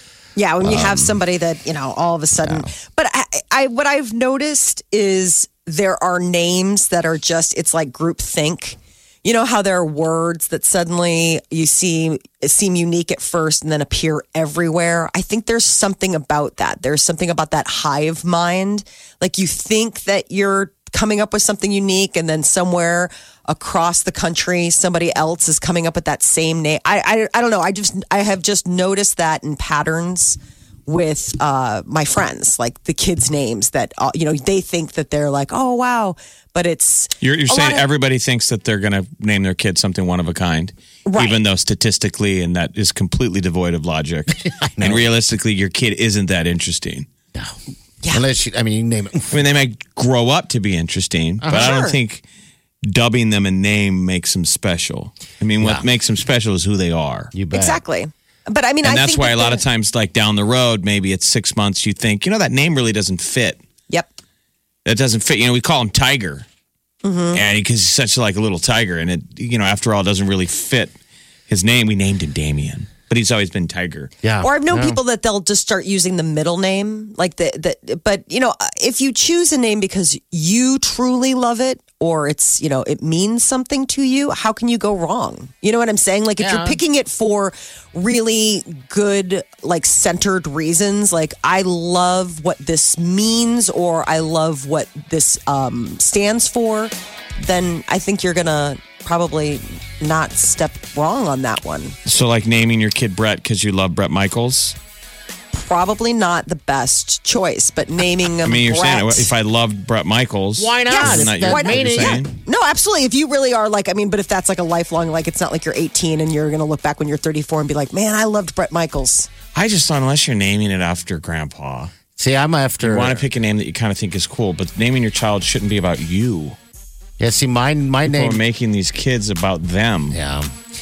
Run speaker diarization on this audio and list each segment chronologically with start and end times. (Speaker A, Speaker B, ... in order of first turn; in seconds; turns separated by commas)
Speaker A: 0.4-37.9, Speaker B: 0.6-1.2, Speaker B: 2.4-2.7, Speaker C: 37.2-47.1, Speaker A: 41.1-41.4, Speaker B: 44.5-45.1, Speaker B: 48.1-49.3, Speaker C: 49.3-52.2, Speaker B: 51.5-51.7, Speaker A: 51.5-52.0, Speaker C: 52.9-57.3, Speaker B: 55.6-55.9, Speaker B: 57.3-57.8, Speaker A: 57.5-59.6, Speaker C: 58.8-63.6, Speaker C: 64.8-66.5, Speaker A: 67.0-67.4, Speaker C: 67.3-71.0, Speaker C: 71.5-74.1, Speaker B: 74.2-75.0, Speaker A: 74.4-102.0, Speaker B: 86.4-86.8, Speaker C: 102.1-104.8, Speaker A: 105.5-109.3, Speaker C: 108.4-112.3, Speaker B: 110.6-112.2, Speaker A: 110.9-119.3, Speaker C: 119.5-121.9, Speaker B: 122.2-123.2, Speaker C: 122.8-126.6, Speaker B: 127.2-128.4, Speaker C: 128.1-130.2, Speaker B: 130.1-130.5